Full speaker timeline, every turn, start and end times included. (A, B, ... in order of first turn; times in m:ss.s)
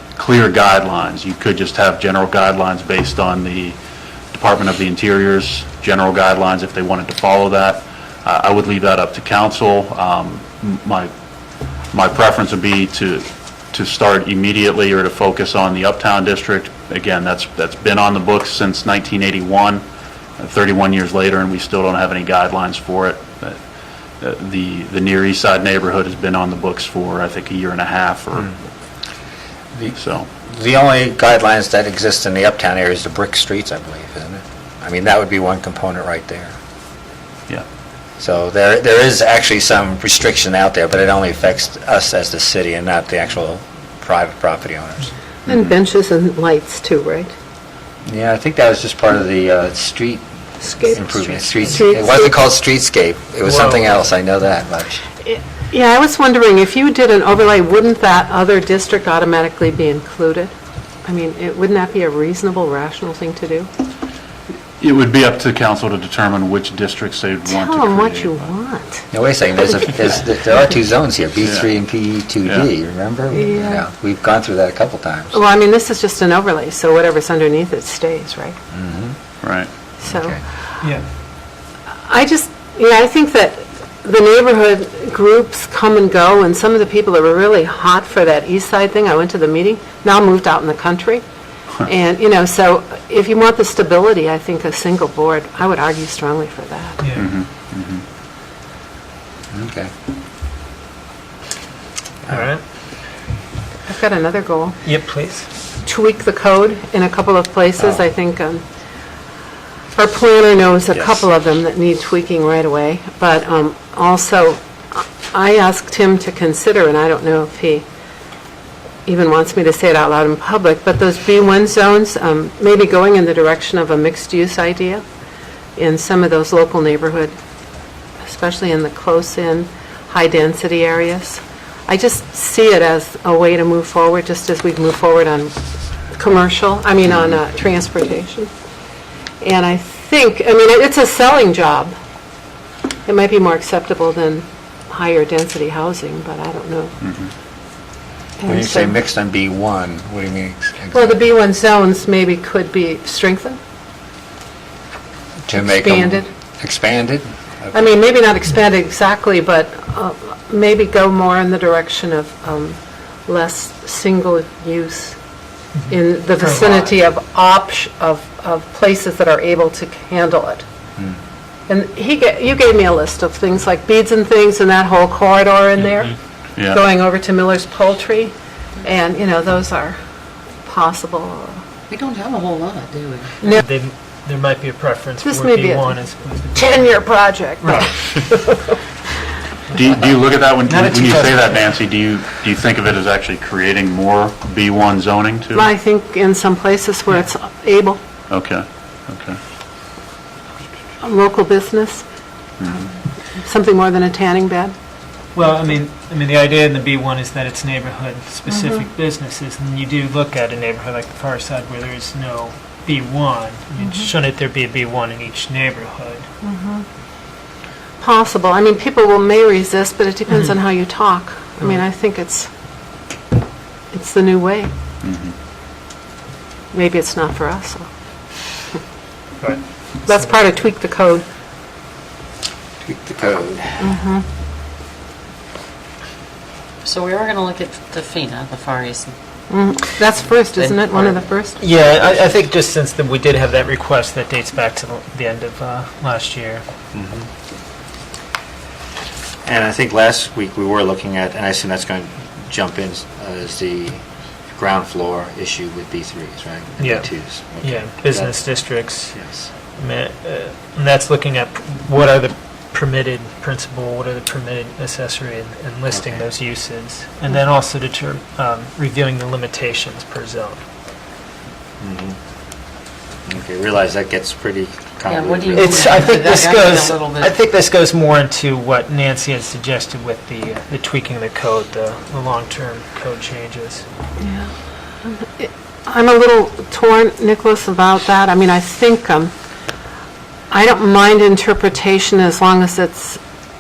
0:00.2-0:03.8 A
0:04.3-0:11.1 A
0:11.9-0:19.8 A
0:20.4-0:23.6 A
0:24.2-0:28.5 A
0:29.9-0:30.3 A
0:30.5-0:36.5 B
0:38.2-0:45.1 B
0:45.5-0:47.3 C
0:45.5-0:45.7 A
0:48.1-0:50.2 B
0:50.6-0:52.4 C
0:50.8-0:55.0 B
0:53.5-0:53.9 D
0:55.2-1:00.5 C
1:01.0-1:03.7 C
1:04.8-1:08.5 A
1:07.5-1:09.1 C
1:09.1-1:15.4 B
1:11.4-1:11.7 A
1:13.3-1:13.8 C
1:15.3-1:18.6 C
1:18.7-1:19.2 B
1:19.4-1:19.7 A
1:20.0-1:20.4 C
1:20.1-1:20.4 B
1:22.1-1:31.2 C
1:31.8-1:37.0 C
1:37.0-1:37.3 D
1:37.2-1:38.0 A
1:39.5-1:39.9 B
1:42.3-1:42.6 D
1:43.9-1:44.8 C
1:44.8-1:45.5 D
1:45.8-1:48.6 C
1:50.0-1:57.8 C
1:50.9-1:51.2 B
1:59.1-2:05.0 C
2:05.8-2:07.3 C
2:08.2-2:15.5 C
2:16.1-2:18.5 C
2:19.4-2:21.9 C
2:23.1-2:27.0 C
2:27.0-2:27.3 A
2:28.4-2:29.0 C
2:28.5-2:31.2 B
2:30.9-2:33.6 C
2:35.5-2:37.9 B
2:35.7-2:36.3 C
2:37.7-2:45.2 C
2:45.8-2:46.9 D
2:45.9-2:50.6 C
2:51.7-2:56.2 C
2:56.6-2:56.8 A
2:56.7-3:00.0 C
3:00.6-3:01.6 C
3:01.9-3:03.4 E
3:03.5-3:06.9 D
3:05.2-3:06.0 C
3:06.5-3:08.8 C
3:07.6-3:08.0 D
3:09.7-3:15.7 A
3:10.7-3:11.6 D
3:15.6-3:18.0 C
3:18.3-3:19.4 A
3:21.0-3:22.0 C
3:22.6-3:22.9 A
3:23.4-3:24.8 C
3:25.4-3:36.3 D
3:33.8-3:34.1 C
3:36.4-3:36.8 C
3:38.0-3:42.5 C
3:43.9-3:44.7 C
3:45.0-3:45.3 A
3:46.7-3:47.9 C
3:49.4-3:50.5 D
3:50.1-3:51.2 C
3:52.8-3:53.8 B
3:53.8-3:54.2 C
3:56.8-3:59.1 E
3:59.5-4:01.6 C
4:00.6-4:00.9 E
4:01.6-4:06.6 D
4:01.9-4:02.3 B
4:06.9-4:07.3 B
4:09.4-4:14.0 B
4:14.5-4:18.4 B
4:16.8-4:17.1 D
4:17.6-4:19.2 D
4:19.1-4:19.5 B
4:19.8-4:30.6 D
4:25.9-4:26.2 B
4:31.8-4:32.2 B
4:33.3-4:36.0 B
4:35.0-4:37.3 E
4:35.5-4:43.8 D
4:44.2-4:44.5 C
4:45.0-4:49.3 C
4:50.5-4:53.2 C